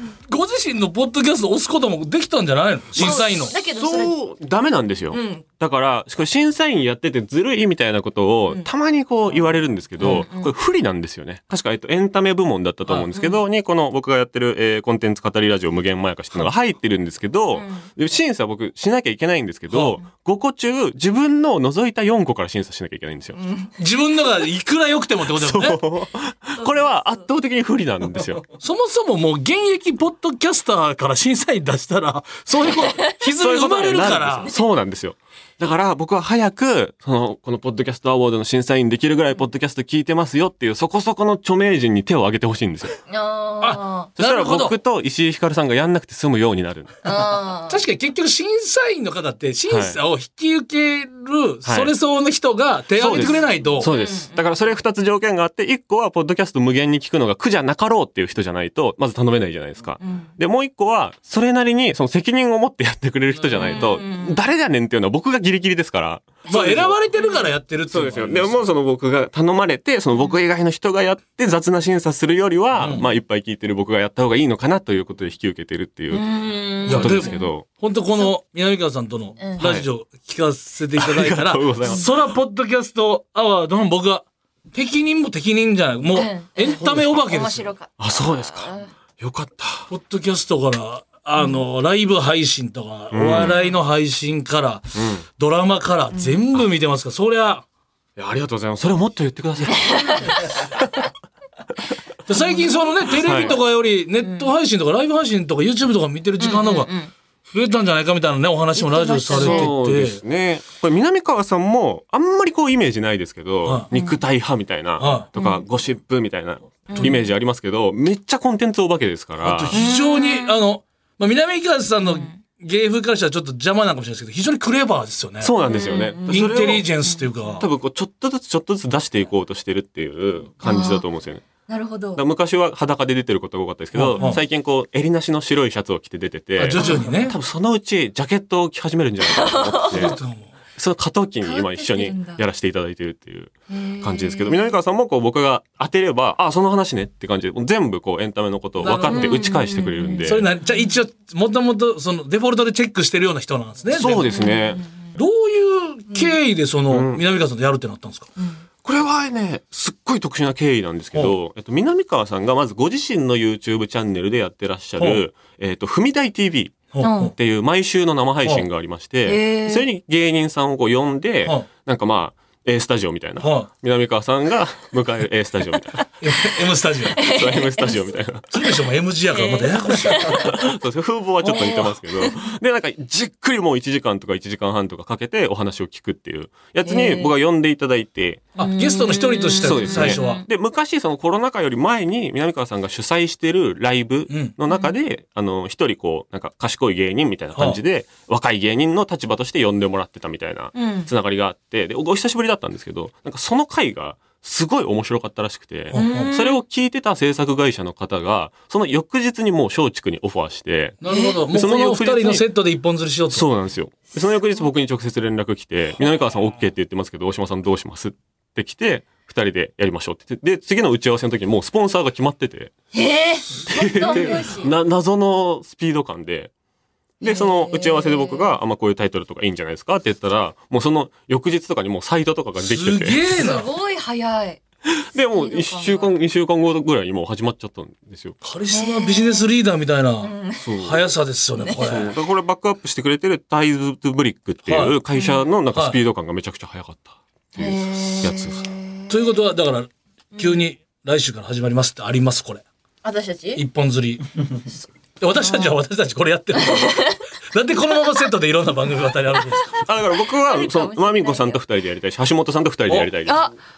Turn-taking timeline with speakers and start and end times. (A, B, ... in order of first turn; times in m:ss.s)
0:00.3-0:03.6 A
0:03.0-0:23.4 B
0:03.0-0:04.1 C
0:05.1-0:05.4 C
0:10.0-0:10.5 C
0:13.1-0:13.4 C
0:17.5-0:17.9 C
0:19.7-0:20.0 A
0:23.3-0:23.8 C
0:23.8-0:25.8 A
0:25.3-0:28.4 B
0:26.6-0:27.2 C
0:28.6-0:34.5 A
0:33.4-0:43.0 B
0:43.1-0:44.1 C
0:43.6-0:44.7 A
0:44.2-0:46.9 B
0:47.0-0:47.8 C
0:47.7-0:53.9 A
0:49.7-0:50.0 B
0:51.6-0:51.9 B
0:53.0-1:06.9 B
0:53.1-0:54.5 C
1:00.0-1:00.3 C
1:03.5-1:04.4 C
1:03.6-1:03.8 A
1:06.5-1:07.5 C
1:06.5-1:08.7 A
1:07.9-1:16.3 B
1:12.8-1:13.0 A
1:16.1-1:17.5 C
1:16.8-1:17.6 B
1:16.9-1:27.6 A
1:19.6-1:19.8 B
1:21.0-1:22.1 B
1:26.1-1:28.9 C
1:26.8-1:27.1 B
1:28.0-1:29.9 B
1:29.9-1:37.6 A
1:33.1-1:33.6 B
1:33.3-1:33.6 C
1:34.9-1:35.2 B
1:36.1-1:36.4 C
1:38.2-1:40.6 B
1:39.7-1:40.4 C
1:42.3-1:46.9 A
1:42.3-1:43.6 C
1:43.2-1:43.6 B
1:44.2-1:44.5 C
1:46.4-1:47.1 C
1:47.5-1:50.2 A
1:48.7-1:49.7 C
1:49.3-1:59.8 B
1:53.9-1:54.2 C
1:55.0-1:55.3 A
1:55.4-1:55.6 C
1:56.9-1:57.2 C
1:56.9-1:57.2 A
1:59.4-2:05.5 A
1:59.7-2:00.6 C
2:02.0-2:02.4 C
2:05.4-2:06.9 B
2:05.6-2:06.4 C
2:06.3-2:07.6 A
2:07.0-2:07.7 C
2:07.6-2:11.4 B
2:10.6-2:11.0 C
2:11.7-2:12.2 C
2:12.2-2:20.2 B
2:13.9-2:14.4 A
2:16.6-2:17.4 A
2:16.7-2:17.2 C
2:19.2-2:20.1 C
2:19.9-2:20.5 A
2:20.8-2:30.5 B
2:21.4-2:22.4 C
2:23.7-2:24.8 C
2:28.8-2:29.4 A
2:28.8-2:30.9 C
2:30.2-2:34.3 A
2:33.9-2:34.8 B
2:34.3-2:35.2 C
2:35.2-2:38.3 A
2:36.1-2:36.4 C
2:36.9-2:37.2 B
2:38.4-2:38.6 C
2:38.8-2:56.0 B
2:45.0-2:45.2 A
2:46.9-2:47.3 A
2:47.0-2:47.3 C
2:49.2-2:49.9 C
2:53.4-2:53.7 A
2:56.2-2:57.2 A
2:57.1-2:58.0 C
2:57.2-2:58.5 B
2:58.5-3:00.3 A
2:59.3-3:00.5 C
3:00.3-3:08.4 B
3:01.4-3:02.5 C
3:06.8-3:07.3 C
3:08.6-3:10.4 A
3:08.6-3:10.4 C
3:09.6-3:32.4 B
3:14.3-3:14.5 A
3:14.7-3:15.0 C
3:17.5-3:17.8 A
3:20.7-3:21.1 C
3:25.9-3:26.3 A
3:25.9-3:26.6 C
3:31.0-3:33.5 A
3:31.1-3:31.4 C
3:33.3-3:42.7 B
3:34.1-3:34.5 C
3:42.9-3:44.7 C
3:43.7-3:46.5 B
3:47.2-3:48.5 C
3:47.2-3:53.2 B
3:52.6-3:53.7 A
3:53.4-3:54.6 C
3:54.8-3:58.4 B
3:55.3-3:56.1 C
3:58.4-4:02.1 A
3:58.7-3:59.5 C
4:00.2-4:00.7 C
4:00.6-4:01.1 B
4:01.6-4:02.1 C
4:01.8-4:08.6 B
4:04.6-4:05.0 A
4:05.1-4:05.4 C
4:05.7-4:06.0 A
4:07.5-4:09.3 C
4:09.1-4:12.6 A
4:10.3-4:10.6 C
4:13.0-4:13.6 C
4:13.5-4:14.3 A
4:15.2-4:19.8 A
4:15.3-4:15.8 C
4:16.6-4:17.1 C
4:19.8-4:23.4 B
4:20.3-4:21.6 C
4:23.2-4:23.5 C